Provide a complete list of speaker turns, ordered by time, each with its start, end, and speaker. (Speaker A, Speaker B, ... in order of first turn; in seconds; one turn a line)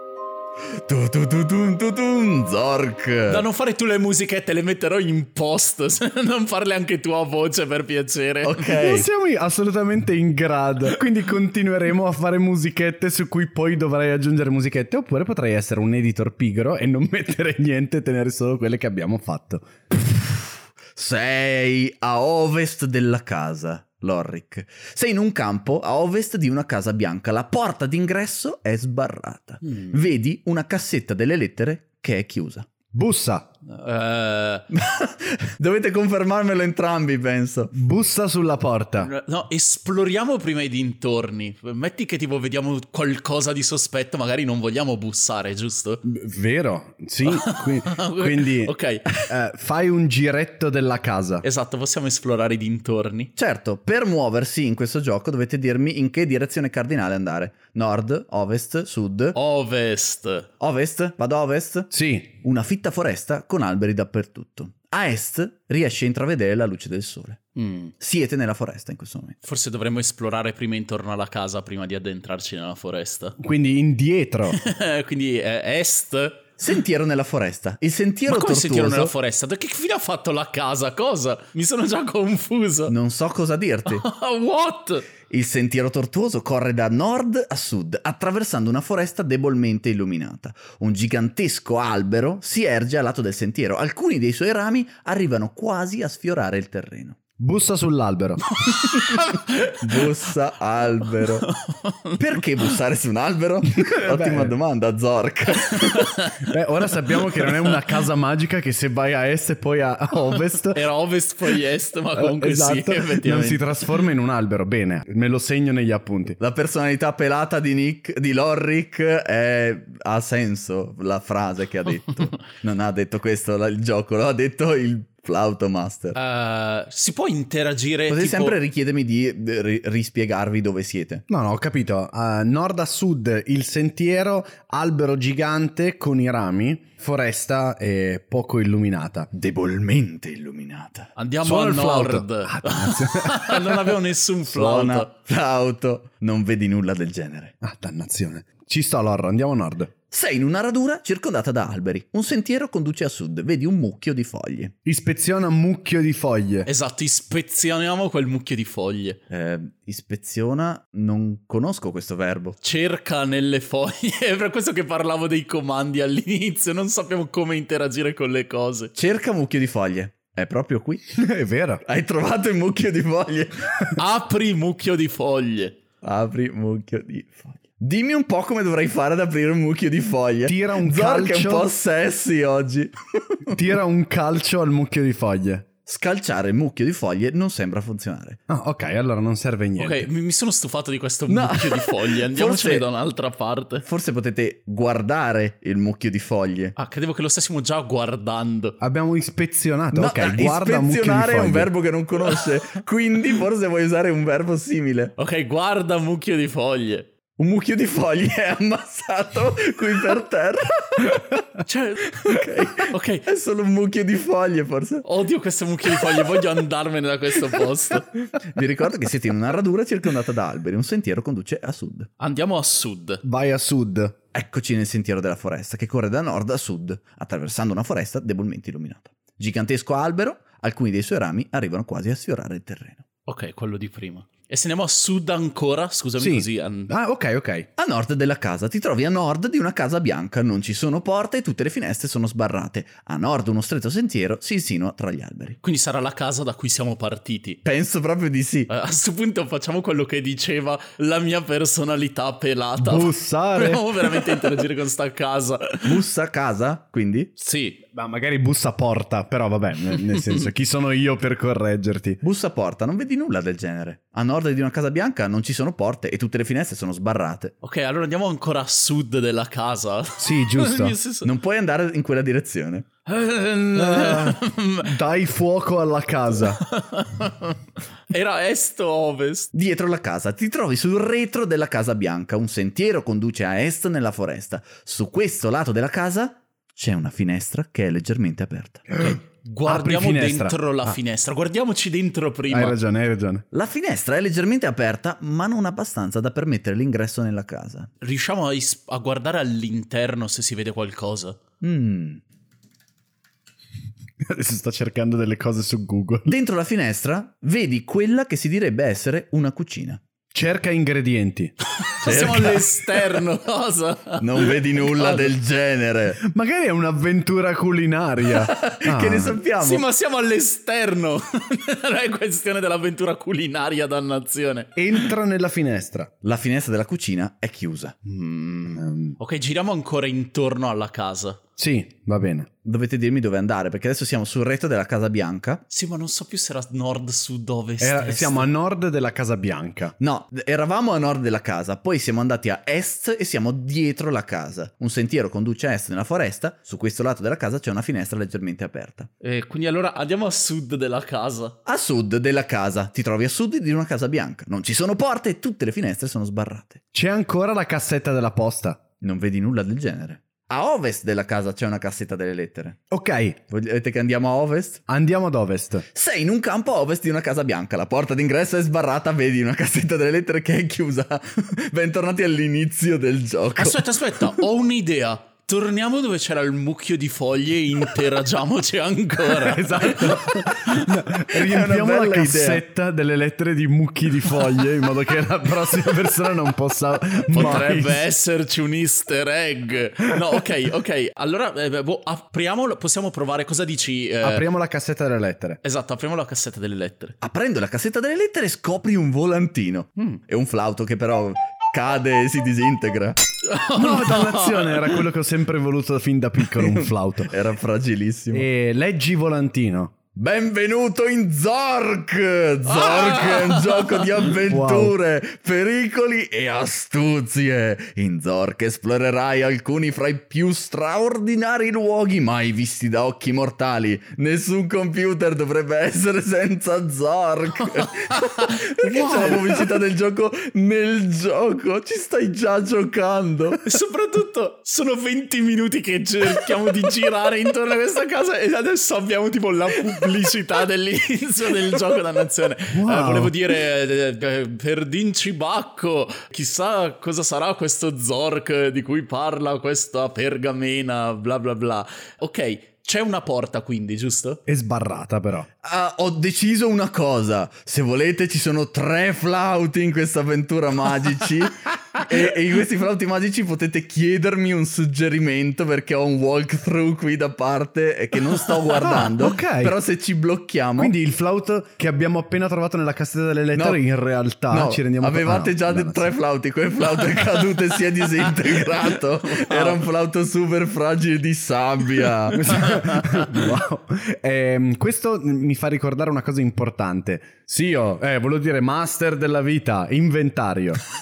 Speaker A: 0.8-3.4
Speaker B: 3.3-8.7
Speaker A: 8.4-9.1
Speaker C: 8.7-19.8
Speaker A: 19.9-32.7
Speaker B: 29.7-29.9
Speaker C: 32.9-33.5
Speaker B: 33.6-34.6
Speaker A: 34.7-37.7
Speaker C: 37.7-39.1
Speaker B: 39.0-46.0
Speaker C: 46.0-51.4
Speaker B: 47.2-49.1
Speaker B: 51.4-53.3
Speaker A: 53.4-59.4
Speaker B: 59.3-60.5
Speaker A: 60.6-61.9
Speaker C: 61.9-62.3
Speaker A: 62.4-67.4
Speaker B: 67.5-67.9
Speaker A: 68.0-69.4
Speaker B: 69.4-73.3
Speaker C: 73.4-74.6
Speaker B: 74.5-76.5
Speaker A: 76.6-79.1
Speaker B: 78.3-82.9
Speaker A: 82.9-84.0
Speaker B: 83.9-85.1
Speaker A: 85.3-97.2
Speaker C: 97.4-98.4
Speaker A: 98.9-101.5
Speaker B: 99.1-100.0
Speaker B: 101.4-102.6
Speaker A: 102.2-106.2
Speaker C: 104.0-104.5
Speaker B: 105.7-106.5
Speaker C: 106.5-110.8
Speaker B: 107.4-107.7
Speaker B: 110.7-113.6
Speaker C: 112.2-116.4
Speaker A: 116.4-126.2
Speaker B: 126.1-128.6
Speaker A: 128.1-131.2
Speaker C: 131.3-139.3
Speaker A: 139.3-141.1
Speaker B: 141.2-145.1
Speaker C: 141.4-143.9
Speaker A: 144.5-147.5
Speaker C: 147.6-149.9
Speaker A: 150.1-154.7
Speaker C: 154.8-156.7
Speaker B: 156.7-159.2
Speaker A: 159.3-162.6
Speaker B: 162.6-168.9
Speaker A: 168.9-171.2
Speaker C: 171.1-171.8
Speaker A: 171.8-173.8
Speaker B: 173.9-175.8
Speaker A: 176.0-183.6
Speaker C: 180.4-181.7
Speaker C: 183.5-185.7
Speaker A: 185.8-188.4
Speaker C: 188.5-190.1
Speaker B: 189.8-193.8
Speaker A: 191.3-192.8
Speaker A: 193.8-196.7
Speaker B: 196.8-198.8
Speaker C: 198.8-201.7
Speaker A: 199.9-205.1
Speaker B: 205.2-207.1
Speaker A: 207.4-211.4
Speaker B: 211.6-213.2
Speaker A: 212.2-215.0
Speaker B: 215.0-218.1
Speaker A: 216.0-216.4
Speaker A: 218.4-222.1
Speaker B: 222.2-223.2
Speaker C: 223.2-224.1
Speaker A: 224.3-233.0
Speaker B: 233.2-236.9
Speaker C: 236.2-237.7
Speaker A: 237.8-245.6
Speaker B: 245.6-247.6
Speaker A: 247.6-248.7
Speaker B: 248.7-256.0
Speaker C: 252.8-253.8
Speaker A: 255.8-257.3
Speaker B: 257.4-257.8
Speaker C: 257.9-262.2
Speaker A: 262.2-267.5
Speaker B: 267.6-271.3
Speaker C: 270.2-270.9
Speaker A: 271.2-272.9
Speaker B: 273.1-274.9
Speaker C: 273.7-276.6
Speaker B: 276.6-277.6
Speaker B: 278.1-279.5
Speaker A: 279.5-289.0
Speaker B: 289.0-292.8
Speaker C: 289.6-290.9
Speaker C: 292.5-293.4
Speaker A: 293.5-297.9
Speaker B: 298.0-301.4
Speaker A: 301.6-302.2
Speaker C: 304.2-306.3
Speaker A: 306.3-310.0
Speaker C: 310.3-311.5
Speaker B: 311.8-315.3
Speaker A: 312.0-312.8
Speaker A: 314.2-316.2
Speaker C: 316.2-319.4
Speaker A: 318.5-319.8
Speaker B: 319.6-325.1
Speaker C: 324.8-326.1
Speaker A: 326.2-327.9
Speaker B: 328.1-331.4
Speaker C: 328.8-329.1
Speaker C: 331.6-332.5
Speaker A: 332.6-335.6
Speaker B: 335.7-338.5
Speaker C: 337.8-339.9
Speaker A: 340.0-349.1
Speaker B: 349.2-351.5
Speaker A: 351.6-356.8
Speaker C: 356.9-358.8
Speaker A: 359.0-362.8
Speaker C: 362.9-363.4
Speaker A: 363.5-364.8
Speaker C: 364.9-365.8
Speaker A: 365.9-373.9
Speaker B: 373.6-380.8
Speaker C: 379.4-388.0
Speaker A: 381.3-382.6
Speaker B: 387.3-394.4
Speaker C: 394.2-395.6
Speaker B: 395.6-397.1
Speaker A: 397.2-403.2
Speaker B: 403.4-405.0
Speaker C: 403.7-407.3
Speaker A: 406.6-408.4
Speaker C: 408.3-409.9
Speaker A: 410.1-433.6
Speaker B: 412.6-414.2
Speaker C: 414.4-414.9
Speaker B: 427.8-429.5
Speaker B: 433.6-454.4
Speaker C: 442.7-443.3
Speaker C: 454.5-455.5
Speaker A: 455.6-470.9
Speaker C: 468.8-469.7
Speaker C: 470.8-476.1
Speaker A: 473.5-473.8
Speaker A: 474.5-482.8
Speaker B: 479.3-479.8
Speaker C: 482.3-490.8